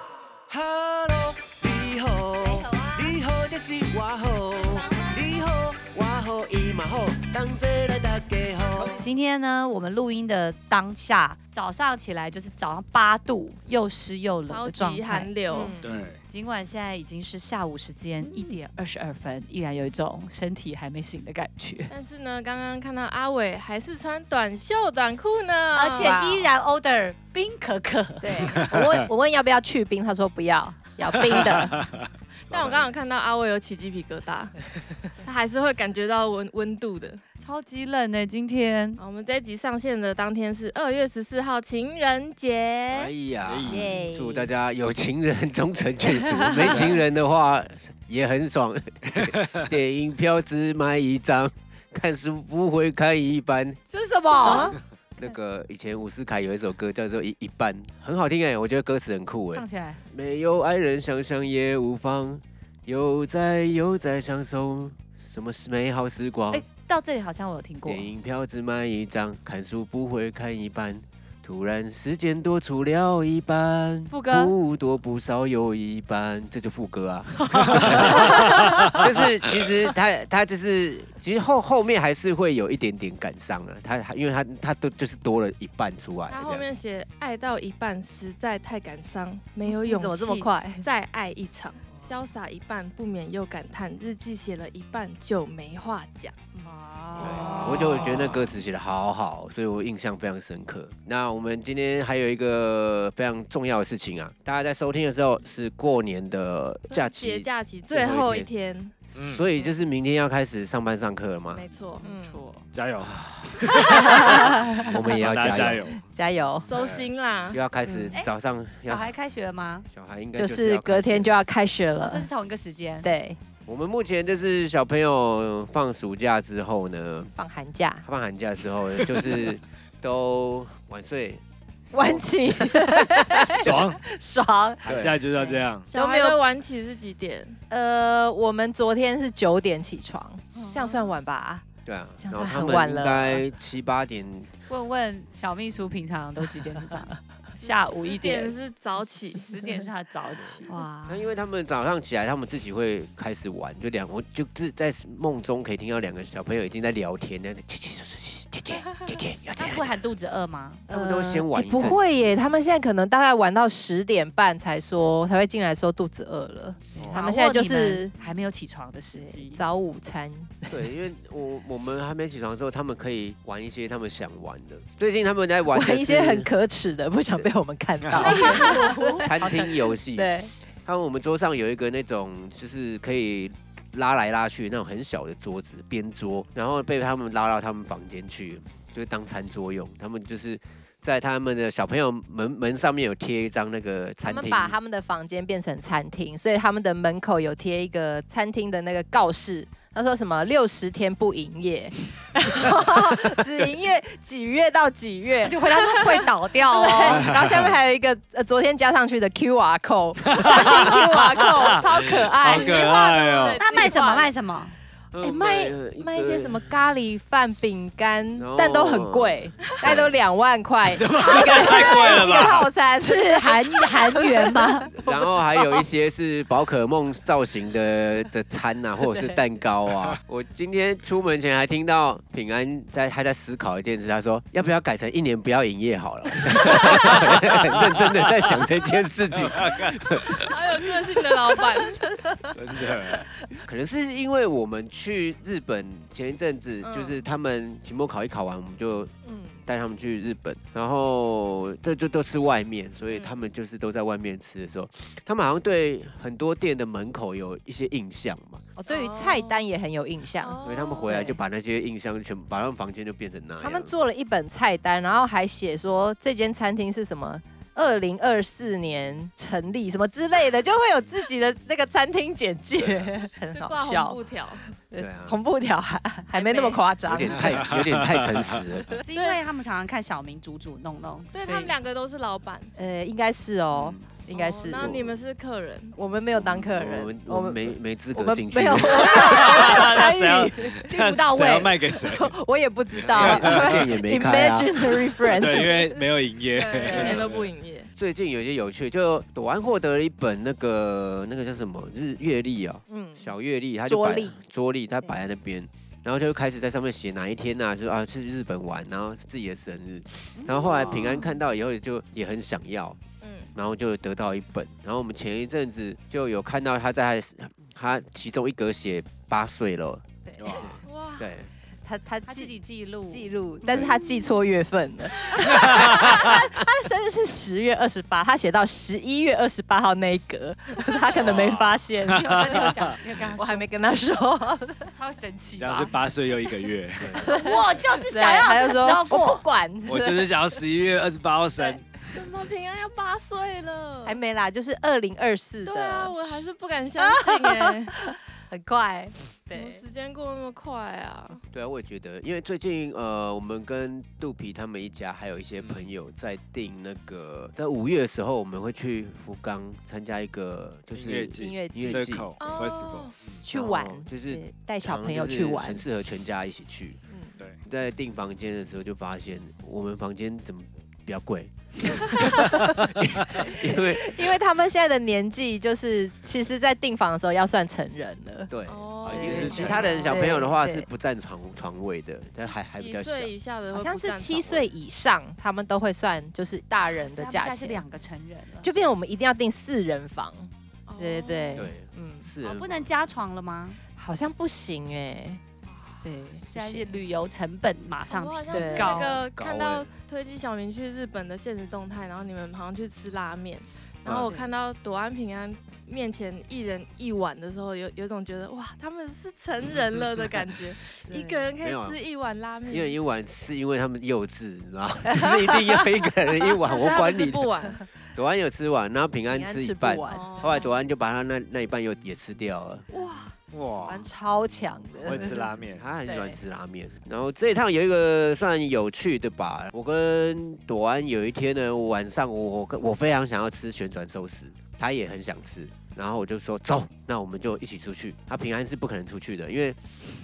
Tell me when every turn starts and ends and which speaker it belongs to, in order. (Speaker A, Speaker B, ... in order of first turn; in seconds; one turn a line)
Speaker A: 0.5-9.0
Speaker B: 9.0-15.3
Speaker C: 14.4-15.8
Speaker D: 15.5-15.9
Speaker E: 15.8-16.2
Speaker B: 16.3-21.9
Speaker C: 21.9-26.2
Speaker B: 25.7-28.5
Speaker D: 25.9-26.5
Speaker D: 28.2-31.7
Speaker E: 28.4-29.1
Speaker E: 31.2-32.8
Speaker C: 32.5-34.5
Speaker C: 35.2-37.2
Speaker B: 37.4-39.0
Speaker C: 39.0-43.1
Speaker A: 42.9-53.8
Speaker E: 43.4-44.0
Speaker D: 43.7-44.5
Speaker D: 46.3-46.9
Speaker B: 53.9-54.7
Speaker D: 54.4-54.8
Speaker A: 55.2-66.6
Speaker B: 59.5-60.0
Speaker B: 66.5-68.1
Speaker A: 67.8-86.7
Speaker B: 74.1-74.5
Speaker E: 77.5-79.0
Speaker C: 86.3-96.3
Speaker D: 89.7-90.9
Speaker B: 96.6-97.8
Speaker A: 97.2-108.5
Speaker D: 97.2-98.2
Speaker C: 97.3-97.6
Speaker E: 97.5-98.5
Speaker C: 106.9-108.9
Speaker E: 109.1-109.4
Speaker A: 109.3-111.6
Speaker C: 111.5-112.4
Speaker B: 112.0-112.7
Speaker E: 112.7-116.1
Speaker D: 113.9-114.8
Speaker A: 114.8-115.9
Speaker D: 116.1-116.7
Speaker E: 116.7-117.1
Speaker C: 116.7-117.6
Speaker A: 117.5-119.1
Speaker B: 118.8-119.9
Speaker A: 119.9-121.3
Speaker D: 120.3-122.3
Speaker B: 122.0-123.1
Speaker D: 123.0-123.4
Speaker A: 123.7-127.3
Speaker D: 127.4-128.0
Speaker A: 128.0-133.8
Speaker D: 131.9-136.4
Speaker E: 133.5-134.0
Speaker E: 134.8-135.9
Speaker A: 134.8-135.2
Speaker C: 135.9-137.6
Speaker D: 137.7-141.6
Speaker C: 140.5-141.1
Speaker A: 141.8-144.5
Speaker D: 142.2-143.4
Speaker B: 144.7-148.5
Speaker C: 147.5-149.7
Speaker B: 149.4-150.8
Speaker A: 150.4-160.0
Speaker D: 150.7-151.3
Speaker B: 159.6-160.8
Speaker A: 160.9-162.0
Speaker D: 160.9-168.1
Speaker A: 167.0-167.2
Speaker B: 167.1-169.6
Speaker D: 169.2-170.8
Speaker A: 170.7-176.5
Speaker D: 175.7-180.5
Speaker C: 178.2-179.2
Speaker A: 179.2-180.3
Speaker A: 180.8-194.7
Speaker D: 194.2-214.3
Speaker B: 205.4-207.3
Speaker E: 207.0-207.7
Speaker E: 210.2-213.6
Speaker C: 213.3-214.0
Speaker B: 213.6-214.7
Speaker A: 215.1-216.8
Speaker D: 215.2-225.1
Speaker A: 218.3-220.1
Speaker E: 220.9-222.7
Speaker B: 221.9-222.2
Speaker B: 222.9-224.9
Speaker A: 224.9-240.5
Speaker E: 236.6-238.1
Speaker E: 239.3-240.1
Speaker C: 240.4-242.1
Speaker D: 241.6-242.5
Speaker E: 242.5-243.3
Speaker A: 243.6-249.1
Speaker C: 246.8-247.2
Speaker D: 249.2-249.6
Speaker A: 249.7-258.6
Speaker C: 253.1-253.4
Speaker D: 258.8-261.4
Speaker C: 258.9-259.7
Speaker C: 260.4-261.3
Speaker A: 260.6-263.9
Speaker D: 263.6-274.2
Speaker C: 273.5-274.6
Speaker D: 274.7-277.5
Speaker A: 274.9-275.4
Speaker C: 276.3-276.8
Speaker A: 277.0-278.9
Speaker E: 277.4-278.6
Speaker B: 279.0-281.7
Speaker C: 279.1-279.4
Speaker C: 281.3-282.7
Speaker D: 282.8-285.0
Speaker A: 283.7-284.1
Speaker C: 284.3-286.0
Speaker A: 284.8-285.2
Speaker D: 285.9-290.9
Speaker A: 286.3-289.3
Speaker E: 289.1-292.4
Speaker B: 290.9-291.8
Speaker D: 292.0-296.0
Speaker A: 293.0-294.9
Speaker E: 293.1-293.9
Speaker E: 295.2-297.5
Speaker C: 296.5-297.9
Speaker D: 296.8-297.2
Speaker A: 297.9-313.0
Speaker D: 302.9-303.3
Speaker D: 303.9-304.4
Speaker D: 310.5-311.0
Speaker C: 313.2-313.5
Speaker A: 313.5-321.5
Speaker D: 320.2-320.6
Speaker E: 320.4-320.8
Speaker C: 320.9-321.3
Speaker D: 321.8-334.9
Speaker B: 322.3-323.3
Speaker E: 325.6-326.4
Speaker E: 331.1-332.9
Speaker B: 332.1-333.6
Speaker B: 334.9-336.0
Speaker E: 335.6-337.2
Speaker D: 337.1-340.6
Speaker B: 337.2-339.4
Speaker E: 339.9-342.2
Speaker C: 342.1-344.2
Speaker D: 344.0-346.2
Speaker C: 345.6-348.0
Speaker D: 347.0-349.8
Speaker C: 349.5-351.4
Speaker A: 351.5-362.3
Speaker E: 355.6-355.9
Speaker E: 360.9-363.4
Speaker D: 361.4-362.1
Speaker C: 362.4-363.1
Speaker D: 363.4-365.8
Speaker A: 363.5-367.0
Speaker A: 367.6-374.3
Speaker D: 373.3-378.5
Speaker A: 378.5-383.3
Speaker C: 378.7-380.1
Speaker E: 379.0-380.1
Speaker D: 380.0-380.9
Speaker C: 382.7-384.7
Speaker D: 383.7-387.8
Speaker B: 387.1-388.7
Speaker D: 388.6-392.3
Speaker C: 390.9-391.7
Speaker A: 391.5-392.9
Speaker B: 392.4-393.8
Speaker D: 393.9-395.4
Speaker D: 396.0-397.0
Speaker B: 396.5-399.2
Speaker C: 398.1-413.0
Speaker D: 398.5-399.2
Speaker A: 399.3-399.9
Speaker D: 404.2-404.5
Speaker D: 411.1-411.5
Speaker A: 411.6-412.0
Speaker A: 412.7-417.5
Speaker C: 416.6-417.8
Speaker A: 418.1-422.9
Speaker D: 419.3-420.5
Speaker C: 420.1-420.8
Speaker C: 422.9-423.3
Speaker E: 423.5-424.1
Speaker D: 423.8-425.5
Speaker E: 425.0-425.8
Speaker A: 425.7-439.8
Speaker D: 426.0-426.4